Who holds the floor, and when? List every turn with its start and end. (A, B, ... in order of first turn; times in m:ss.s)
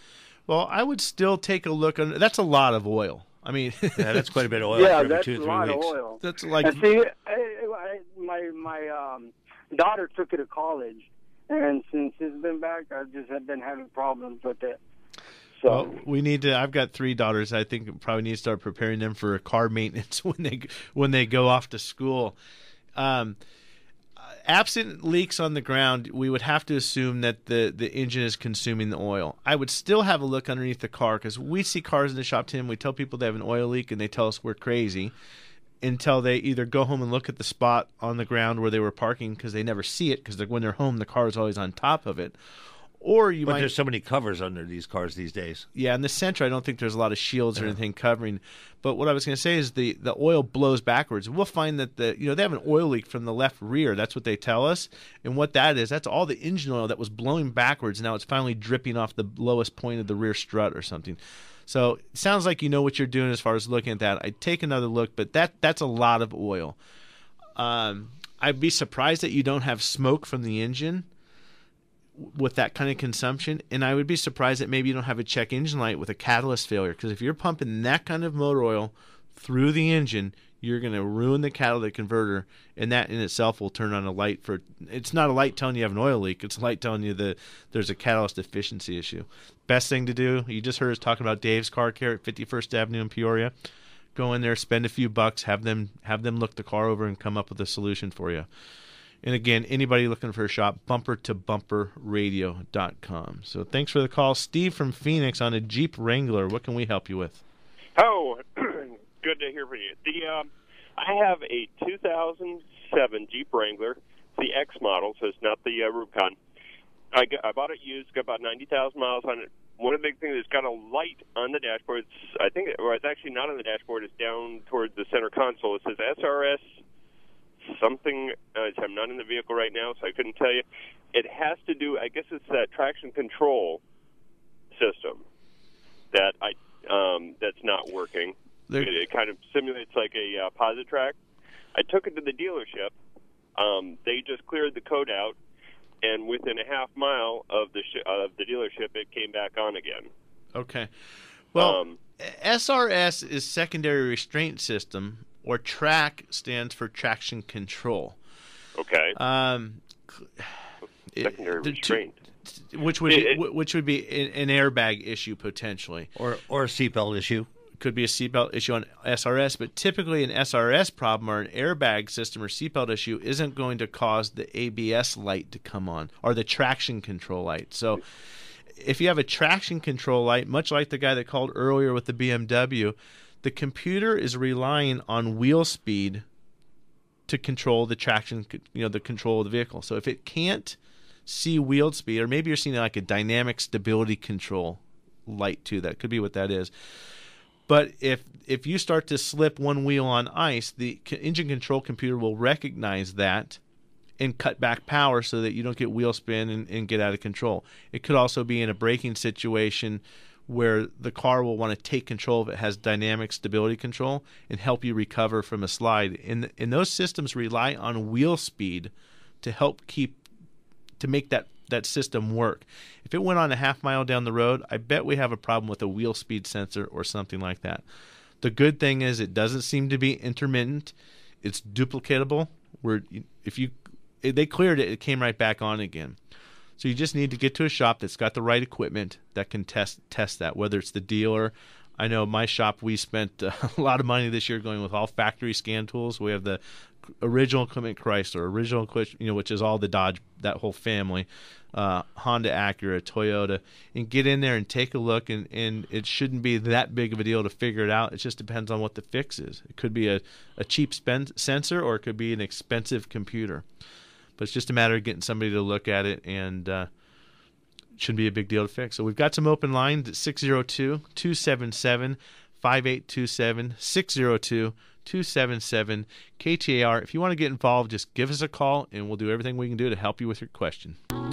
0:00.5-0:04.3 A
0:04.0-0:05.9 B
0:04.7-0:14.8 C
0:06.2-0:06.8 A
0:15.6-0:16.0 C
0:15.7-0:22.4 A
0:23.0-0:23.4 A
0:24.4-0:35.1 A
0:35.8-0:42.4 A
0:43.0-0:43.7 A
0:43.4-0:45.6 B
0:45.7-1:06.8 A
1:07.6-1:11.1 A
1:12.2-1:33.5 A
1:34.1-1:38.5 A
1:39.2-1:47.4 A
1:48.0-1:56.4 D
1:57.1-2:06.6 D
2:07.7-2:13.8 D
2:14.7-2:15.2 D
2:16.1-2:21.2 D
2:18.7-2:18.9 A
2:21.7-2:22.9 D
2:23.6-2:25.4 D
2:26.0-2:30.1 D
2:30.5-2:30.9 A
2:31.5-2:38.2 A
2:31.5-2:32.0 D
2:38.8-2:39.1 D
2:39.1-2:40.5 A
2:41.1-2:46.1 A
2:41.2-2:42.2 D
2:43.1-2:43.4 D
2:46.2-2:47.5 B
2:47.8-2:58.0 A
2:58.8-3:06.2 A
3:07.3-3:16.7 A
3:17.7-3:23.6 A
3:24.2-3:38.9 A
3:39.4-3:40.2 A
3:41.0-3:47.8 A
3:48.4-3:56.2 A
3:56.8-4:06.6 A
4:07.2-4:23.6 A
4:24.4-4:26.9 A
4:28.0-4:41.0 A